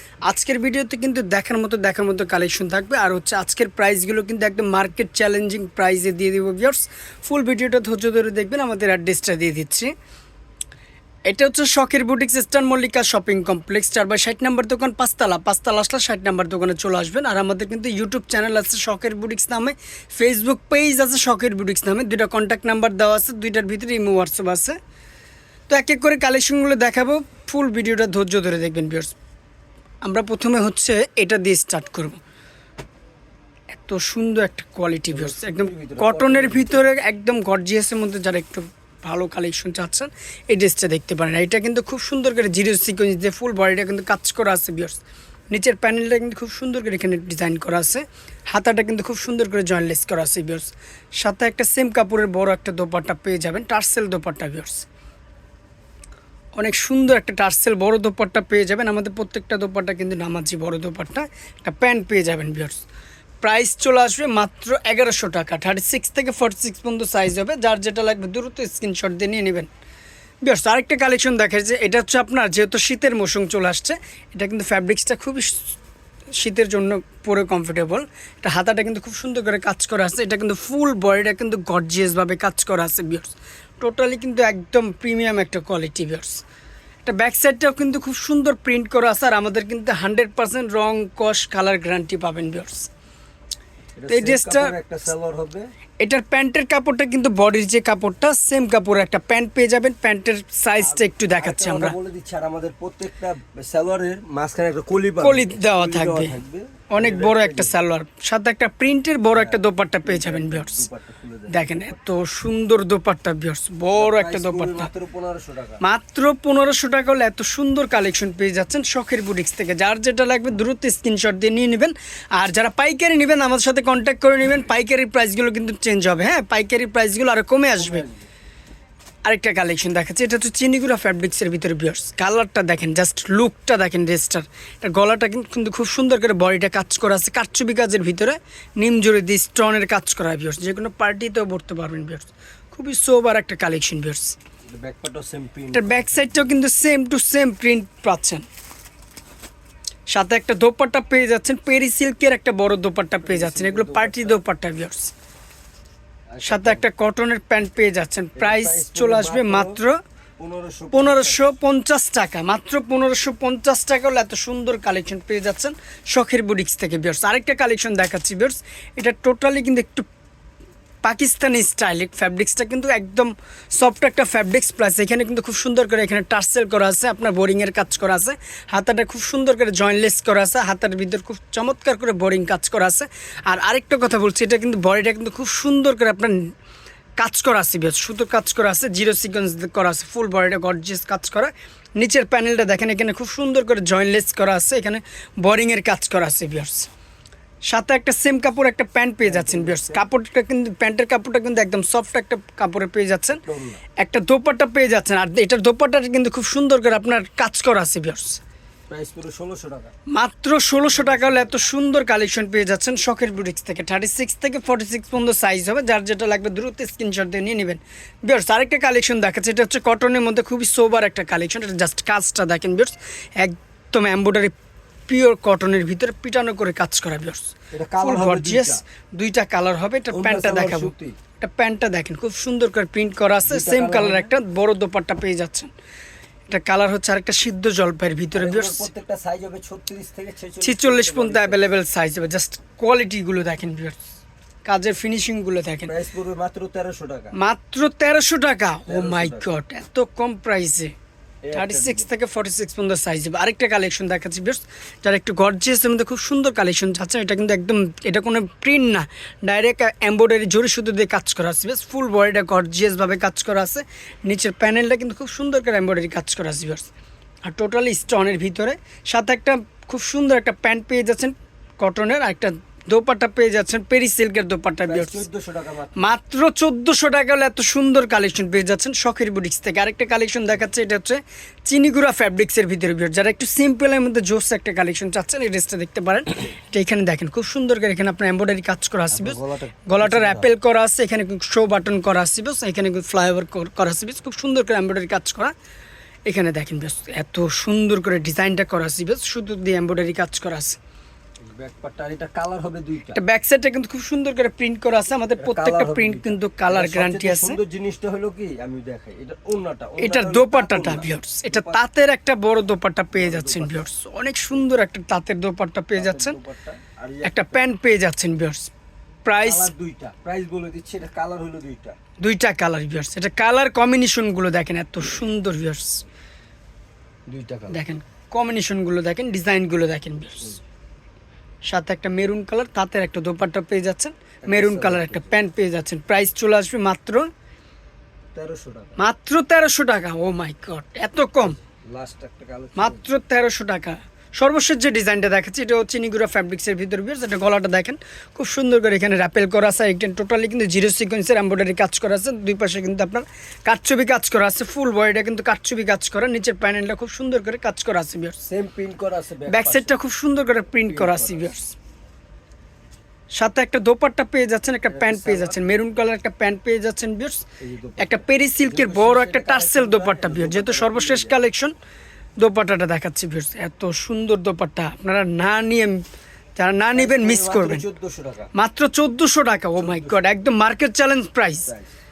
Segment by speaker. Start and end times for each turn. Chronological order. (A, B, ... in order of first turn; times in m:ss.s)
0:00.2-0:09.9 A
0:11.3-0:24.8 A
0:25.7-0:29.1 A
0:30.0-0:32.2 A
0:33.7-0:54.8 A
0:35.1-0:36.8 B
0:56.5-1:02.8 A
1:03.4-1:09.7 A
1:10.4-1:15.8 A
1:16.3-1:26.4 A
1:27.0-1:32.9 A
1:34.0-1:35.7 B
1:34.1-1:34.7 A
1:36.0-1:42.0 A
1:40.8-1:47.8 B
1:45.2-1:46.3 A
1:46.9-1:50.9 A
1:49.3-1:51.9 B
1:51.5-1:54.9 A
1:54.0-1:55.8 B
1:55.8-2:08.0 A
2:07.8-2:08.3 B
2:09.2-2:24.4 A
2:24.7-2:26.4 B
2:25.7-2:28.4 A
2:30.1-2:35.1 A
2:33.2-2:34.4 B
2:36.3-2:36.8 B
2:36.4-2:40.0 A
2:38.4-2:39.8 B
2:40.4-2:41.4 B
2:40.9-2:50.1 A
2:51.0-3:06.5 A
3:07.2-3:16.9 A
3:17.7-3:23.4 A
3:19.2-3:20.1 B
3:23.4-3:23.8 B
3:24.0-3:28.4 A
3:28.9-3:29.9 B
3:30.1-3:44.5 A
3:30.9-3:31.5 B
3:45.1-3:55.7 A
3:47.7-3:48.8 B
3:50.1-3:51.2 B
3:53.4-3:54.3 B
3:56.5-3:58.9 A
3:58.3-4:01.7 B
4:00.6-4:04.0 A
4:04.6-4:05.9 A
4:05.8-4:07.3 B
4:07.3-4:10.9 A
4:08.9-4:09.4 B
4:11.4-4:12.1 B
4:11.5-4:26.9 A
4:27.4-4:35.2 A
4:34.8-4:36.0 B
4:36.0-4:55.5 A
4:49.1-4:50.5 B
4:56.2-5:00.8 A
5:01.4-5:03.2 B
5:03.1-5:07.6 A
5:05.4-5:11.8 B
5:10.0-5:16.4 A
5:13.1-5:13.8 B
5:15.9-5:17.6 B
5:17.2-5:18.7 A
5:19.2-5:19.7 A
5:19.4-5:22.0 B
5:22.2-5:26.0 A
5:27.3-5:27.8 B
5:27.7-5:30.6 A
5:31.6-5:37.3 A
5:34.4-5:35.3 B
5:38.3-5:39.0 B
5:39.0-5:41.6 A
5:41.7-5:43.0 B
5:42.8-5:58.4 A
5:58.4-5:59.9 B
5:59.5-6:01.7 A
6:00.8-6:01.5 B
6:03.3-6:11.7 A
6:04.8-6:05.6 B
6:07.6-6:11.4 B
6:12.4-6:16.0 A
6:16.6-6:17.8 A
6:16.9-6:18.5 B
6:18.5-6:21.7 A
6:19.8-6:20.4 B